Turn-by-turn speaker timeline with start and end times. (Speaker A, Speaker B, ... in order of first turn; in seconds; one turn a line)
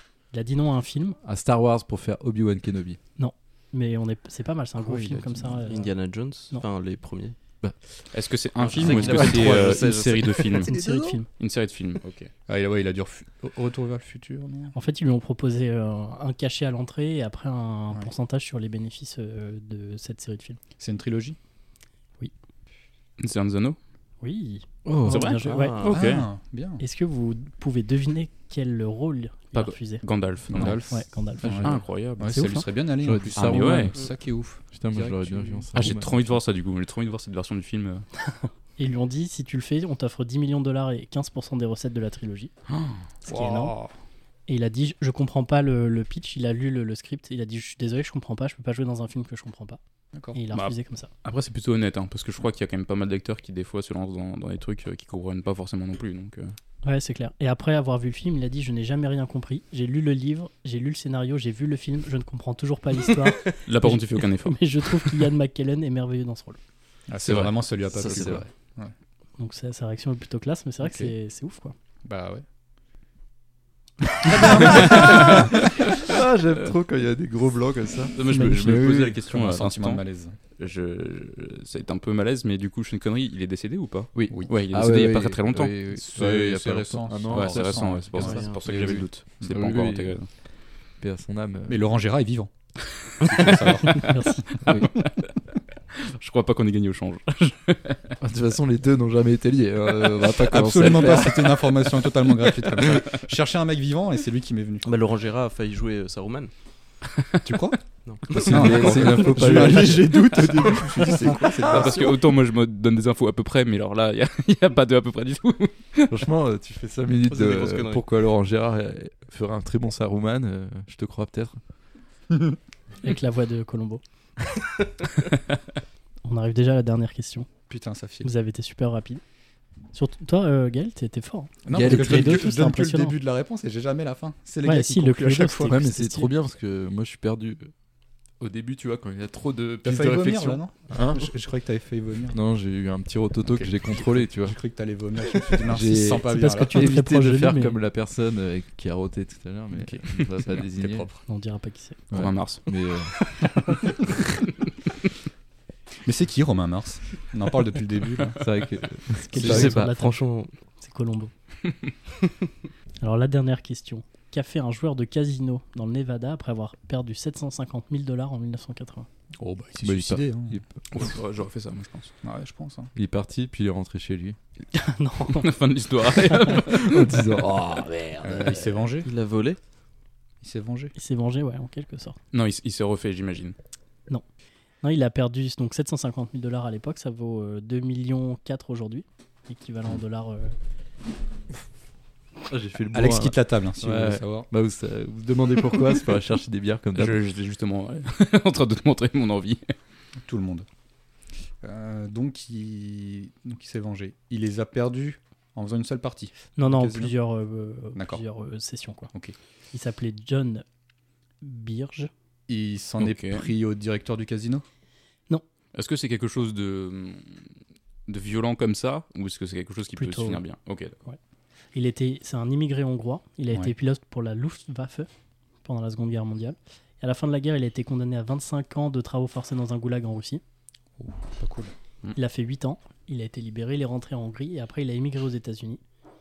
Speaker A: 0.3-1.2
Speaker B: 1.2-3.0
Speaker A: 3.2-5.9
Speaker C: 4.8-5.8
Speaker D: 5.7-7.4
Speaker E: 8.1-10.7
Speaker D: 8.6-10.7
Speaker C: 8.7-9.5
Speaker C: 10.6-11.2
Speaker A: 10.7-11.3
Speaker E: 11.4-12.3
Speaker C: 12.5-14.8
Speaker A: 14.7-20.6
Speaker C: 20.8-21.4
Speaker E: 23.2-23.8
Speaker A: 24.2-25.9
Speaker B: 24.9-25.3
Speaker E: 25.1-26.3
Speaker D: 25.3-26.0
Speaker C: 25.8-26.8
Speaker A: 26.8-30.1
Speaker E: 29.5-30.9
Speaker C: 30.5-36.0
Speaker A: 30.9-32.6
Speaker E: 31.5-32.5
Speaker B: 33.0-34.0
Speaker E: 33.4-34.0
Speaker B: 34.7-36.3
Speaker E: 35.8-38.1
Speaker A: 38.3-42.5
Speaker E: 42.7-43.0
Speaker A: 43.2-43.8
Speaker C: 43.3-43.9
Speaker A: 44.5-49.8
Speaker C: 50.1-50.4
Speaker A: 50.3-51.1
Speaker E: 50.5-56.5
Speaker A: 56.8-66.6
Speaker E: 63.7-65.2
Speaker C: 67.1-68.9
Speaker E: 67.2-67.5
Speaker D: 68.0-68.4
Speaker B: 68.0-68.5
Speaker A: 69.4-71.8
Speaker C: 70.8-71.1
Speaker C: 72.0-72.4
Speaker C: 74.2-75.6
Speaker B: 74.3-79.2
Speaker E: 74.5-75.5
Speaker E: 78.2-80.0
Speaker C: 79.3-80.4
Speaker E: 80.6-85.8
Speaker B: 84.2-90.2
Speaker C: 86.0-88.5
Speaker E: 87.3-90.3
Speaker D: 88.2-88.7
Speaker B: 91.0-91.8
Speaker C: 91.7-92.5
Speaker C: 93.2-94.8
Speaker A: 93.8-94.5
Speaker B: 94.7-94.9
Speaker E: 94.7-95.3
Speaker E: 96.0-98.2
Speaker B: 98.2-101.7
Speaker C: 100.3-104.9
Speaker D: 104.8-106.5
Speaker C: 107.4-112.1
Speaker D: 108.0-112.2
Speaker B: 108.3-110.3
Speaker E: 111.5-116.2
Speaker B: 116.1-121.6
Speaker D: 117.3-118.0
Speaker C: 122.3-122.6
Speaker A: 123.0-124.0
Speaker A: 126.2-127.5
Speaker C: 127.7-128.3
Speaker A: 128.2-129.2
Speaker A: 129.9-133.2
Speaker C: 131.7-135.8
Speaker B: 131.7-132.5
Speaker A: 134.6-136.3
Speaker B: 135.7-137.7
Speaker B: 138.4-141.3
Speaker C: 139.8-142.4
Speaker B: 142.3-144.6
Speaker C: 144.0-146.8
Speaker B: 145.6-151.1
Speaker A: 146.2-147.8
Speaker E: 149.8-150.0
Speaker C: 150.8-151.2
Speaker A: 151.3-152.0
Speaker B: 152.1-153.2
Speaker E: 152.1-152.7
Speaker A: 153.4-153.9
Speaker C: 156.0-158.4
Speaker B: 158.4-160.0
Speaker A: 159.2-161.3
Speaker D: 159.3-160.5
Speaker A: 163.0-169.1
Speaker C: 169.4-170.6
Speaker B: 169.8-170.8
Speaker E: 170.9-172.1
Speaker C: 172.2-172.9
Speaker B: 172.9-174.4
Speaker A: 174.7-175.5
Speaker E: 175.3-177.2
Speaker B: 176.5-178.4
Speaker C: 178.2-179.1
Speaker D: 179.0-179.6
Speaker C: 180.4-180.9
Speaker A: 180.9-182.2
Speaker E: 182.3-183.6
Speaker A: 184.8-190.6
Speaker B: 192.5-197.2
Speaker C: 192.9-194.5
Speaker E: 197.0-199.7
Speaker C: 200.2-200.7
Speaker C: 201.6-207.1
Speaker A: 206.6-209.1
Speaker C: 207.9-208.2
Speaker A: 209.7-210.7
Speaker A: 211.4-212.1
Speaker C: 212.5-214.6
Speaker E: 213.0-213.5
Speaker E: 215.7-217.5
Speaker E: 218.1-221.0
Speaker A: 220.0-220.4
Speaker A: 221.7-225.1
Speaker A: 225.6-230.4
Speaker C: 231.0-231.7
Speaker A: 232.2-235.8